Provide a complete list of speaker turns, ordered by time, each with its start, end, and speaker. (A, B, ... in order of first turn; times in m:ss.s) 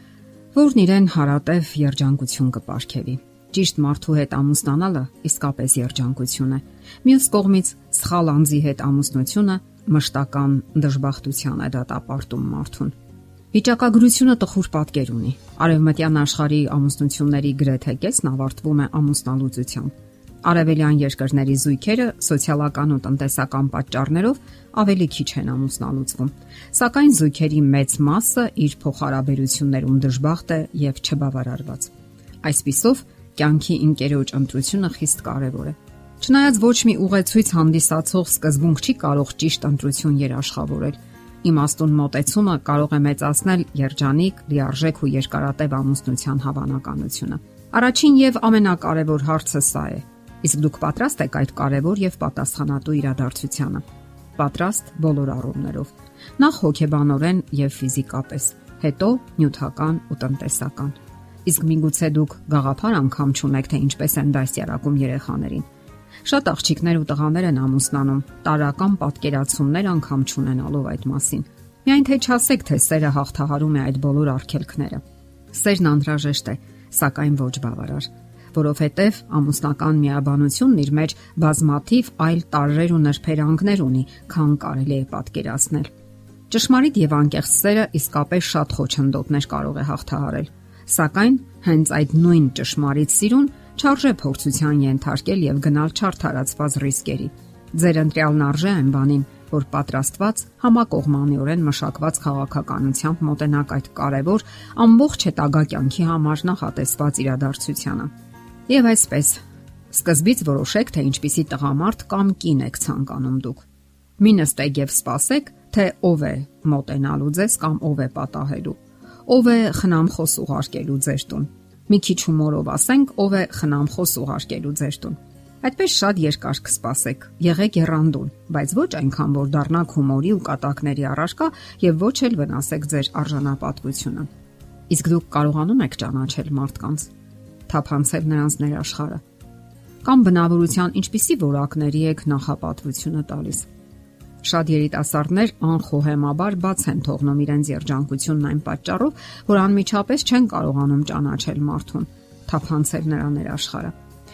0:00.5-0:12.9 A
0:13.5-0:19.9 A
0:20.4-0:31.9 A
0:32.4-0:53.8 A
0:54.4-1:05.6 A
1:06.2-1:25.9 A
1:26.5-1:48.1 A
1:48.7-1:53.6 A
1:54.2-2:14.3 A
2:14.9-2:17.1 A
2:17.7-2:19.2 A
2:20.0-2:23.7 A
2:24.4-2:33.9 A